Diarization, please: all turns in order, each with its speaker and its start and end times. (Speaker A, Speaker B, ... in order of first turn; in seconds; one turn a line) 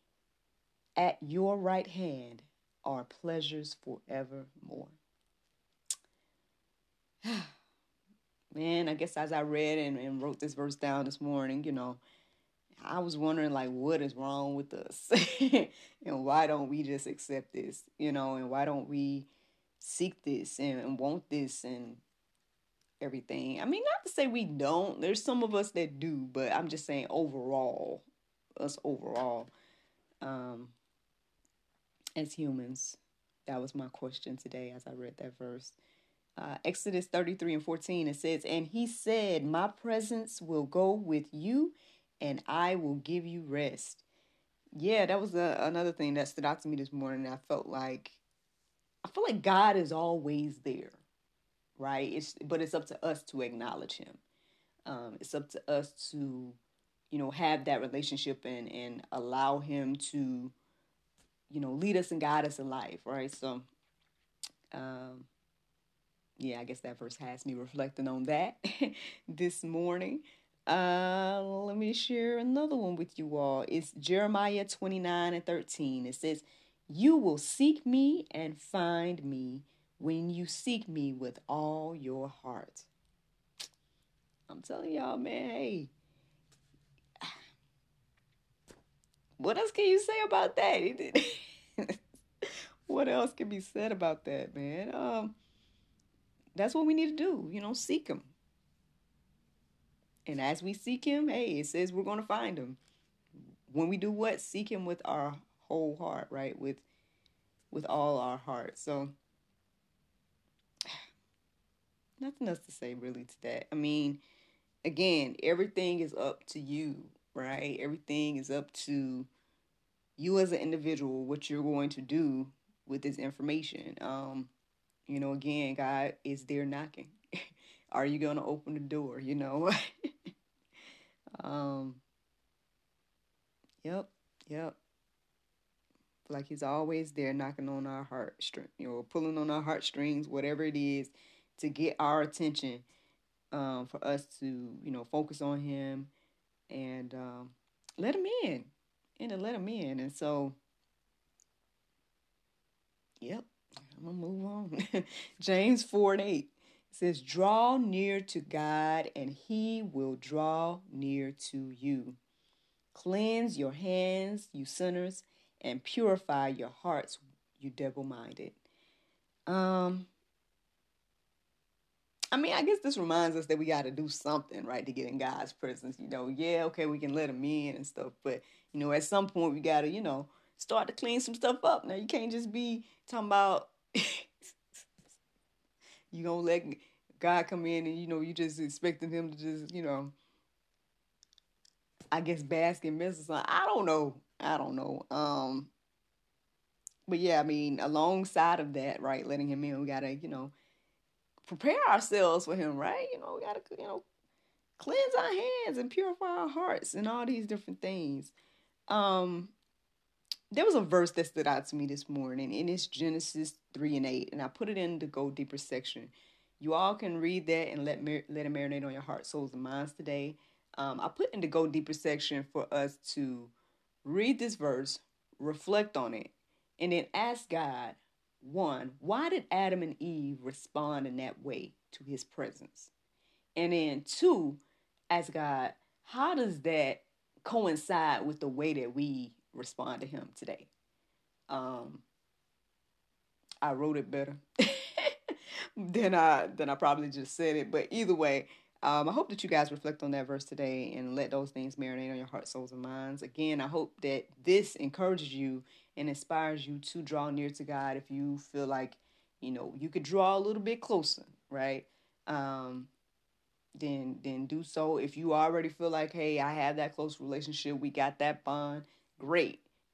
Speaker A: 1.0-5.0
Speaker A: 7.2-7.5
Speaker A: 8.5-12.0
Speaker A: 12.8-19.3
Speaker A: 19.8-22.0
Speaker A: 23.0-28.1
Speaker A: 28.6-29.5
Speaker A: 30.2-30.7
Speaker A: 32.1-35.8
Speaker A: 36.4-44.0
Speaker A: 44.7-48.2
Speaker A: 49.0-51.0
Speaker A: 51.8-54.2
Speaker A: 54.9-56.6
Speaker A: 57.1-60.5
Speaker A: 61.5-63.7
Speaker A: 64.7-65.3
Speaker A: 66.4-82.9
Speaker A: 84.5-85.9
Speaker A: 89.4-92.0
Speaker A: 92.9-95.3
Speaker A: 96.5-98.3
Speaker A: 100.2-102.8
Speaker A: 103.7-106.8
Speaker A: 107.7-109.1
Speaker A: 112.2-114.2
Speaker A: 114.8-119.3
Speaker A: 120.2-124.5
Speaker A: 125.1-127.2
Speaker A: 127.9-129.7
Speaker A: 131.4-132.0
Speaker A: 133.8-134.8
Speaker A: 136.3-142.8
Speaker A: 143.5-146.1
Speaker A: 146.7-150.6
Speaker A: 153.2-162.2
Speaker A: 162.9-168.6
Speaker A: 169.5-170.1
Speaker A: 172.3-184.6
Speaker A: 186.1-190.1
Speaker A: 192.1-195.7
Speaker A: 197.1-200.5
Speaker A: 201.4-204.0
Speaker A: 204.8-208.3
Speaker A: 208.9-209.5
Speaker A: 210.5-223.5
Speaker A: 224.0-232.9
Speaker A: 233.6-240.7
Speaker A: 241.5-242.0
Speaker A: 243.6-262.9
Speaker A: 263.8-269.6